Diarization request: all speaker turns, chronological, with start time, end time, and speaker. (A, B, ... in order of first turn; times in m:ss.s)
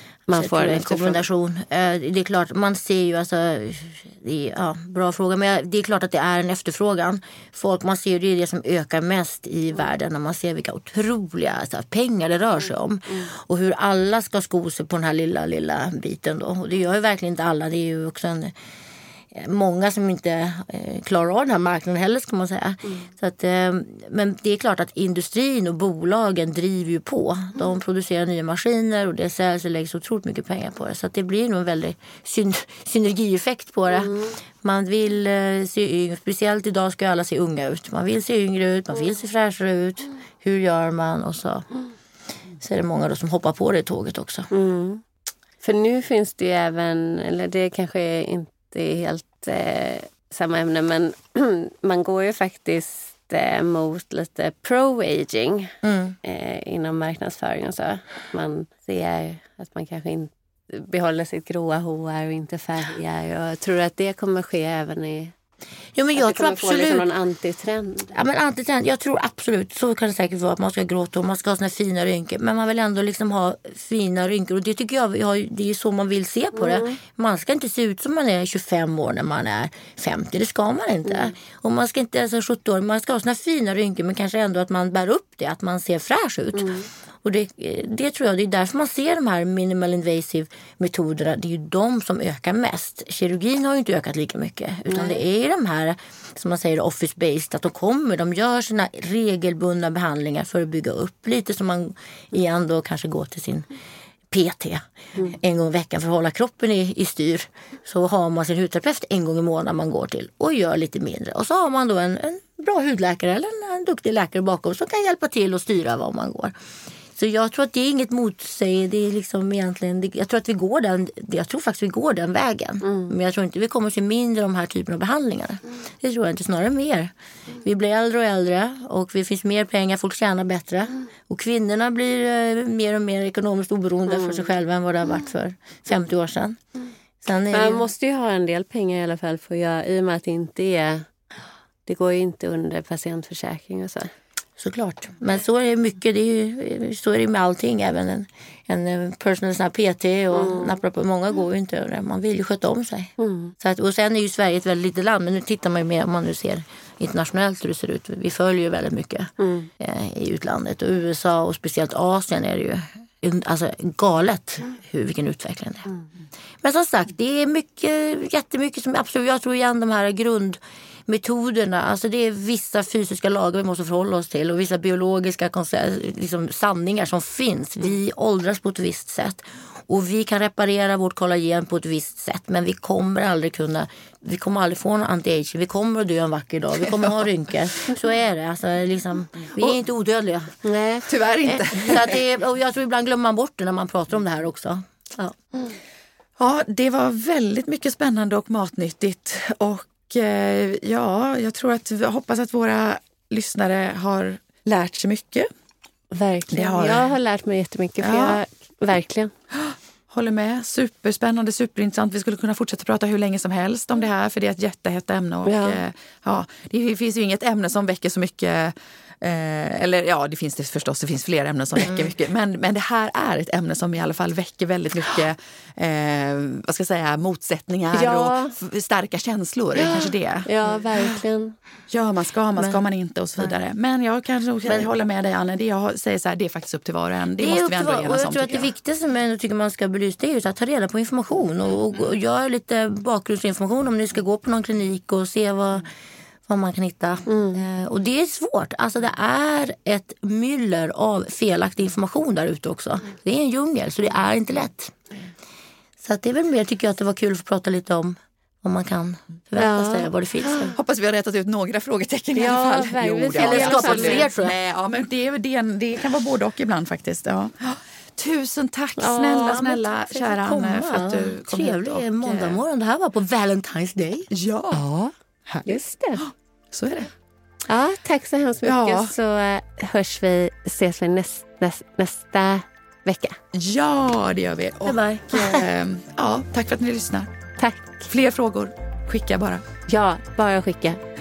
0:00.3-0:01.2 A
0:00.3-0:18.5 B
0:19.3-0:41.7 B
0:42.6-0:44.5 B
0:44.5-0:45.0 A
0:45.6-1:05.3 A
0:55.8-0:56.2 B
1:05.9-1:07.1 B
1:06.1-1:08.1 A
1:08.1-1:43.7 B
1:16.7-1:16.9 A
1:26.5-1:26.8 A
1:44.3-1:56.5 B
1:57.1-2:16.6 B
2:02.8-2:03.1 A
2:17.2-2:17.8 B
2:17.5-2:21.0 A
2:21.8-2:24.1 A
2:24.6-2:45.9 B
2:30.4-2:30.7 A
2:33.2-2:33.5 A
2:39.4-2:39.7 A
2:46.6-3:10.5 B
3:10.6-3:11.0 A
3:11.1-3:12.2 C
3:11.4-3:15.4 B
3:16.4-3:25.5 C
3:26.1-3:29.3 A
3:26.5-3:27.1 C
3:28.0-3:28.4 C
3:29.5-3:50.5 C
3:35.4-3:35.8 A
3:47.9-3:48.6 A
3:50.4-3:51.6 A
3:51.9-3:58.7 C
3:54.6-3:54.9 B
3:57.4-4:05.9 B
4:06.5-4:14.9 B
4:07.3-4:07.6 A
4:16.0-4:20.8 B
4:19.6-4:20.7 A
4:20.7-4:32.6 C
4:22.3-4:24.3 A
4:23.4-4:24.5 B
4:29.0-4:29.6 A
4:29.4-4:35.1 B
4:34.3-4:34.8 C
4:35.6-4:36.2 A
4:36.2-4:37.1 C
4:37.7-4:43.4 A
4:38.6-4:39.1 C
4:43.5-4:47.3 C
4:44.8-4:45.6 B
4:47.6-4:48.1 A
4:48.1-4:49.6 C
4:49.9-4:51.0 A